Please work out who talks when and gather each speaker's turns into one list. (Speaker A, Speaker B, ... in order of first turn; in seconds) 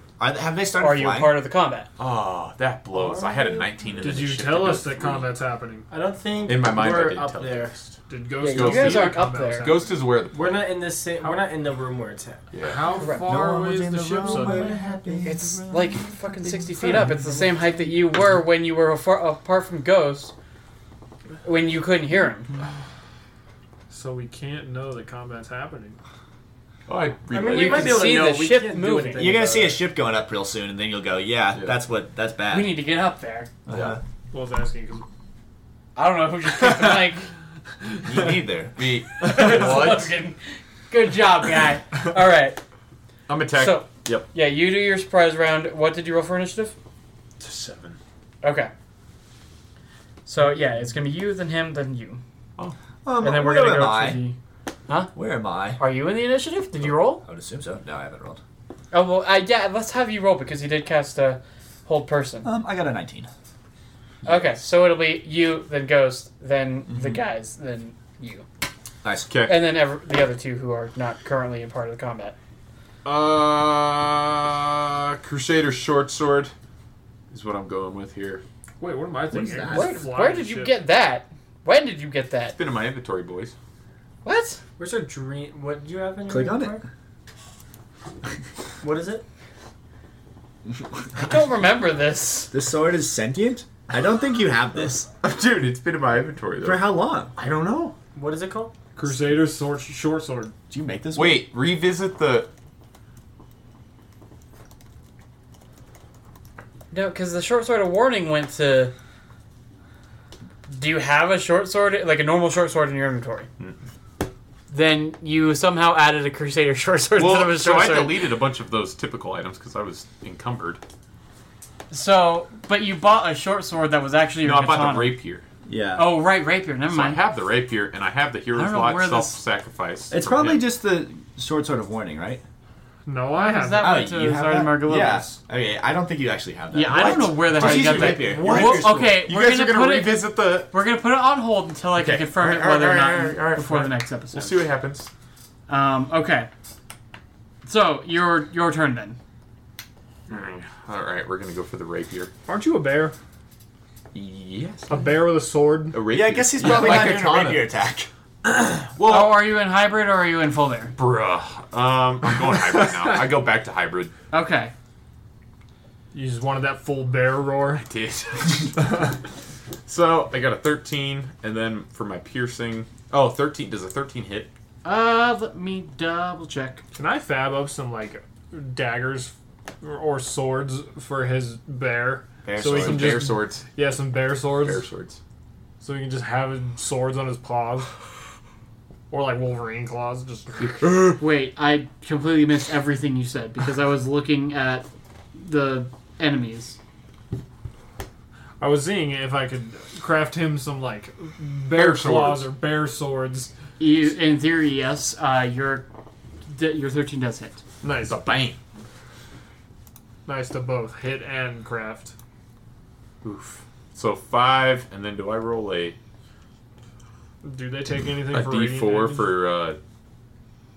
Speaker A: 0.2-1.4, 13.2-17.0, 29.2-32.8, 33.7-34.0, 38.0-38.8, 53.0-54.2, 55.1-55.8, 56.8-58.4, 62.4-63.3, 66.9-67.2, 69.0-69.3, 86.3-86.8, 92.5-95.1, 96.6-97.3, 100.7-101.5, 125.7-126.1, 130.1-132.4, 133.8-139.1, 156.1-158.1, 182.4-183.2
Speaker B: 0.8-1.9, 8.4-9.7, 13.0-13.3, 15.2-20.3, 21.4-22.5, 27.5-29.2, 32.5-33.5, 36.0-37.3, 39.2-42.6, 43.5-46.7, 48.4-48.7, 50.2-52.2, 53.2-55.1, 55.8-57.2, 58.9-62.5, 64.2-68.5, 69.5-72.3, 79.7-82.6, 84.2-84.6, 91.2-92.5, 106.9-108.9, 110.7-113.5, 114.7-118.2, 121.9-125.2, 126.0-127.2, 128.5-129.4, 133.3-135.3, 136.7-144.6, 145.7-146.5, 147.7-149.2, 159.0-160.9, 164.3-164.7, 174.8-176.8, 191.2-196.8, 203.8-205.8, 206.5-207.6
Speaker C: 2.0-5.3, 6.5-8.0, 8.5-10.8, 12.5-12.9, 26.9-28.1, 33.7-34.0, 38.8-40.1, 43.3-44.3, 47.4-48.0, 69.3-69.6, 73.0-76.5, 77.3-78.4, 79.3-79.9, 82.5-83.5, 95.2-97.9, 101.1-102.5, 117.2-120.8, 124.4-125.4, 126.9-130.7, 136.9-140.7, 142.0-145.1, 150.3-152.3, 154.1-155.2, 155.9-157.7, 158.4-159.5, 160.9-164.1, 167.8-169.1, 169.8-174.5, 182.7-183.7, 184.4-185.2, 190.6-191.2, 201.7-202.5, 208.0-208.6, 213.2-216.0, 218.3-219.8
Speaker D: 2.9-3.7, 5.9-7.7, 10.3-12.4, 27.3-29.8, 84.8-86.8, 88.8-89.2, 98.1-98.7
Speaker E: 4.0-5.9, 8.1-10.0, 12.6-14.8, 23.9-26.0, 34.3-35.0, 78.8-80.7, 99.0-100.5, 133.1-134.1, 152.5-153.1, 154.9-156.0, 166.1-167.8, 176.9-184.8, 185.8-187.9, 189.1-190.7, 198.6-203.5, 207.8-208.2, 210.2-212.1, 217.4-219.3